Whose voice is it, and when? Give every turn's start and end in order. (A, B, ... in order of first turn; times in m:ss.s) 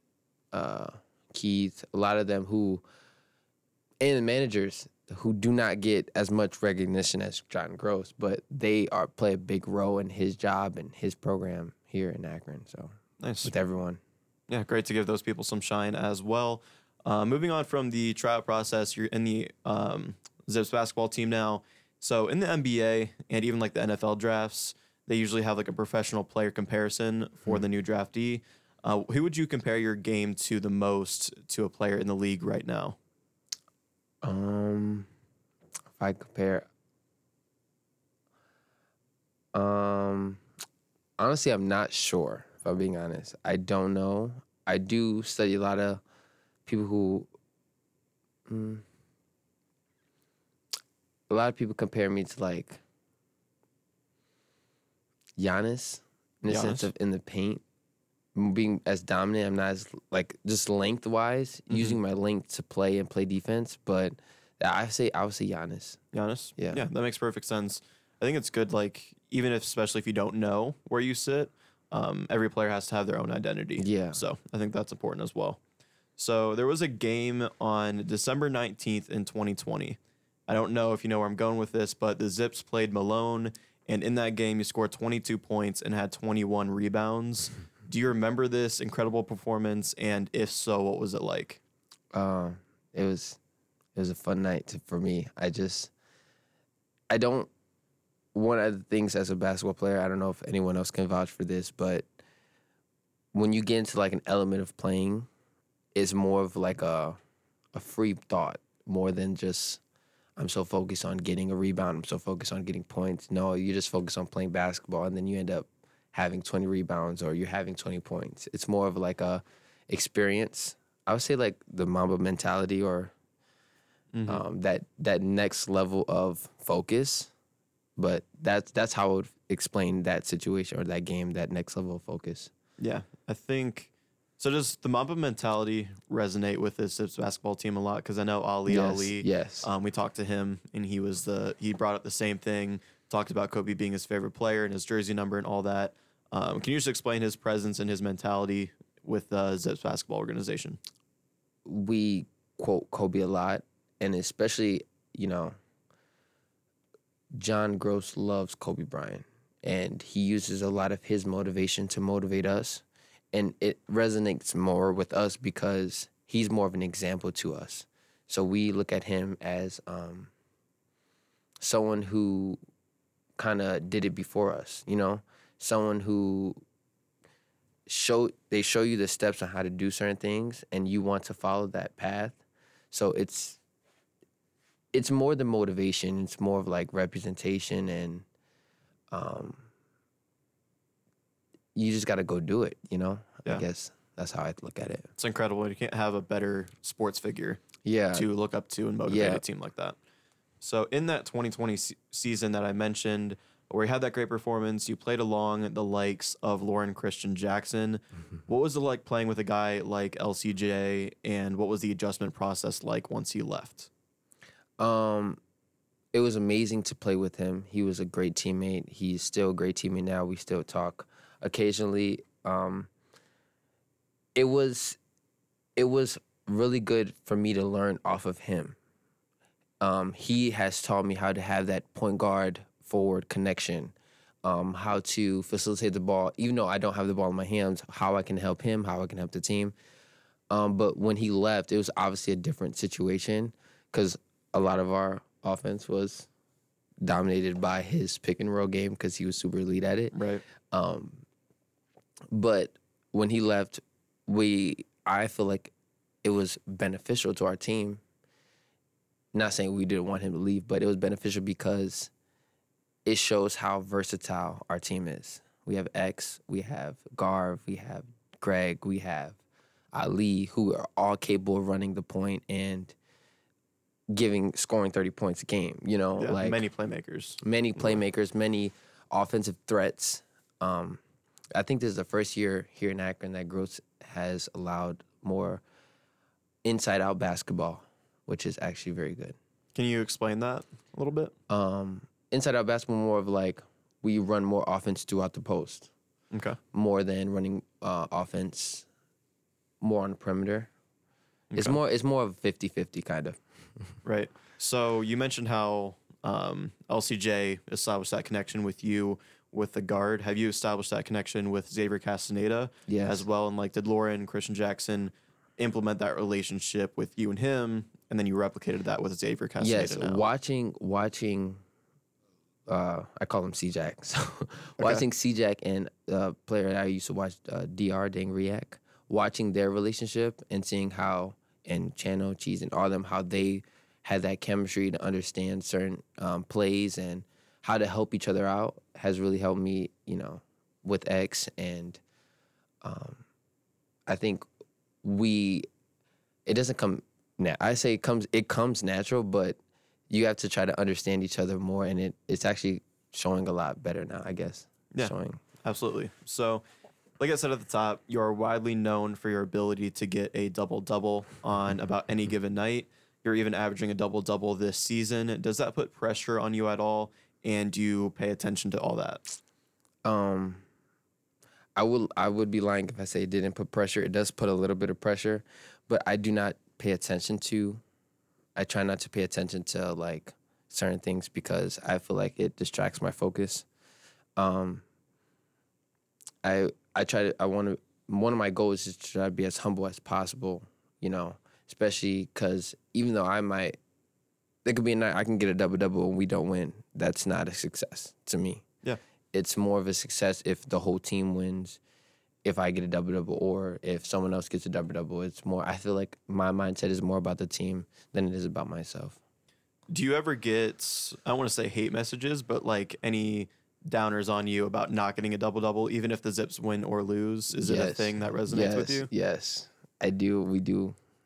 0:00.5-0:02.8 A
0:04.0-0:14.0 A
0:13.2-0:13.6 B
0:14.5-0:33.0 B
0:34.2-0:35.1 A
0:36.0-0:36.7 A
0:39.5-0:40.4 A
0:41.2-0:46.0 A
0:46.7-0:47.3 A
0:48.5-0:48.8 A
0:51.3-0:52.8 A
0:55.4-0:57.6 A
0:56.5-0:56.9 B
0:58.4-1:06.0 A
1:01.7-1:02.0 B
1:06.1-1:15.6 B
1:06.6-1:06.8 A
1:13.8-1:14.2 A
1:16.2-1:31.6 B
1:32.1-1:33.4 A
1:34.0-1:35.9 A
1:37.1-1:37.5 A
1:38.3-1:42.1 A
1:43.3-1:45.3 A
1:46.0-1:47.2 A
1:47.7-1:49.8 A
1:50.4-2:03.1 A
2:04.1-2:04.4 B
2:04.3-2:07.3 A
2:08.0-2:12.5 A
2:12.8-2:30.8 B
2:18.7-2:19.7 A
2:31.7-2:35.6 A
2:37.3-2:50.3 A
2:51.6-2:52.6 A
2:53.4-2:56.6 A
2:57.9-3:02.4 A
3:02.9-3:03.6 A
3:04.9-3:08.2 A
3:09.1-3:09.7 A
3:11.8-3:15.1 A
3:15.2-3:17.6 B
3:17.8-3:18.3 A
3:18.1-3:20.0 B
3:19.1-3:19.4 A
3:20.6-3:33.9 B
3:34.8-3:35.4 A
3:36.1-3:42.9 A
3:44.4-3:45.0 A
3:45.8-3:48.8 A
3:49.8-3:59.8 A
4:00.5-4:06.3 A
4:07.0-4:10.2 A
4:10.1-4:10.4 B
4:10.7-4:11.2 A
4:12.3-4:15.7 A
4:16.2-4:18.0 A
4:19.3-4:22.1 A
4:23.0-4:29.4 A
4:29.9-4:33.0 A
4:34.1-4:36.6 A
4:36.2-4:38.0 B
4:37.4-4:41.0 A
4:41.5-4:45.6 A
4:46.6-4:49.4 A
4:49.8-4:51.3 B
4:51.5-4:55.9 A
4:56.3-4:56.6 B
4:56.7-4:58.9 A
4:59.8-5:00.7 A
5:01.6-5:03.4 A
5:04.0-5:20.3 B
5:12.9-5:13.2 A
5:19.6-5:21.6 A
5:22.7-5:42.0 A
5:42.8-5:43.2 A
5:44.1-5:44.5 A
5:45.0-5:45.7 A
5:46.5-5:49.6 A
5:50.1-5:55.4 A
5:55.6-5:56.6 B
5:57.2-6:09.2 B
6:10.0-6:10.6 A
6:11.8-6:17.8 A
6:18.6-6:23.7 A
6:24.4-6:24.8 A
6:26.4-6:33.8 A
6:34.6-6:38.6 A
6:39.3-6:41.8 A
6:42.4-6:49.2 A
6:49.9-6:59.1 B
6:57.6-7:01.0 A